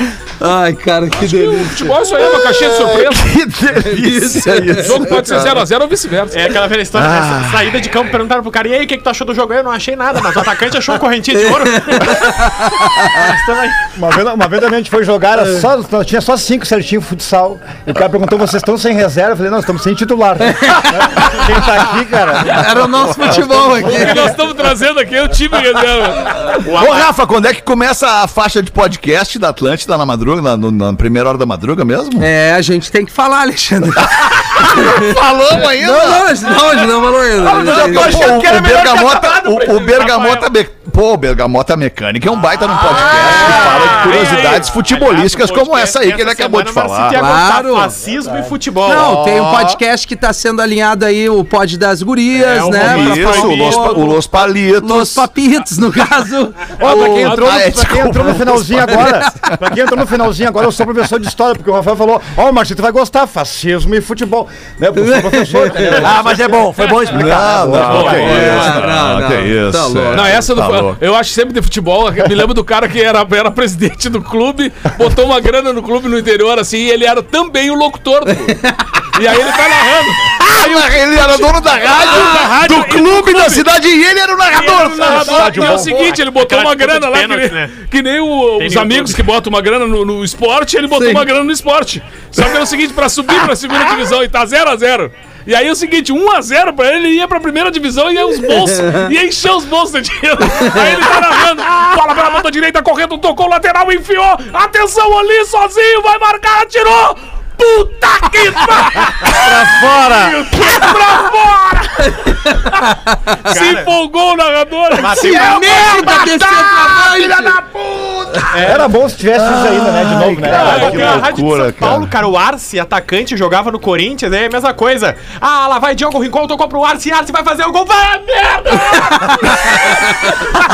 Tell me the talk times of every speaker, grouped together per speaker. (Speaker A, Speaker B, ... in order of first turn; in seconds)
Speaker A: 0.4-1.9, 3.9-5.1, 11.7-13.1, 20.5-21.2, 22.4-24.3, 32.2-38.3, 43.2-43.9, 47.2-47.9, 48.8-54.0, 54.8-57.5, 65.0-66.1, 68.0-70.3, 78.5-78.9, 90.9-91.3, 115.0-117.6
Speaker B: 1.1-3.3, 4.8-6.6, 23.7-26.6, 43.9-44.6, 57.0-57.3, 66.8-68.8, 70.1-83.7, 84.6-116.3, 120.5-121.3
Speaker C: 2.6-5.6, 6.9-7.7, 26.7-32.3, 34.1-36.6, 37.4-47.2, 52.8-55.3, 56.8-59.6, 67.0-71.0, 80.3-86.2, 116.6-122.1
Speaker D: 6.3-13.9, 26.6-27.1, 39.4-40.5, 43.0-49.6, 52.3-54.5, 84.5-87.7, 88.6-89.2, 113.5-113.9, 115.0-116.3, 118.5-118.9, 120.4-130.3
Speaker E: 13.9-24.3, 56.8-66.7, 67.3-68.5, 85.3-85.9, 109.2-110.5, 118.6-121.0
Speaker F: 37.4-39.5, 65.9-68.5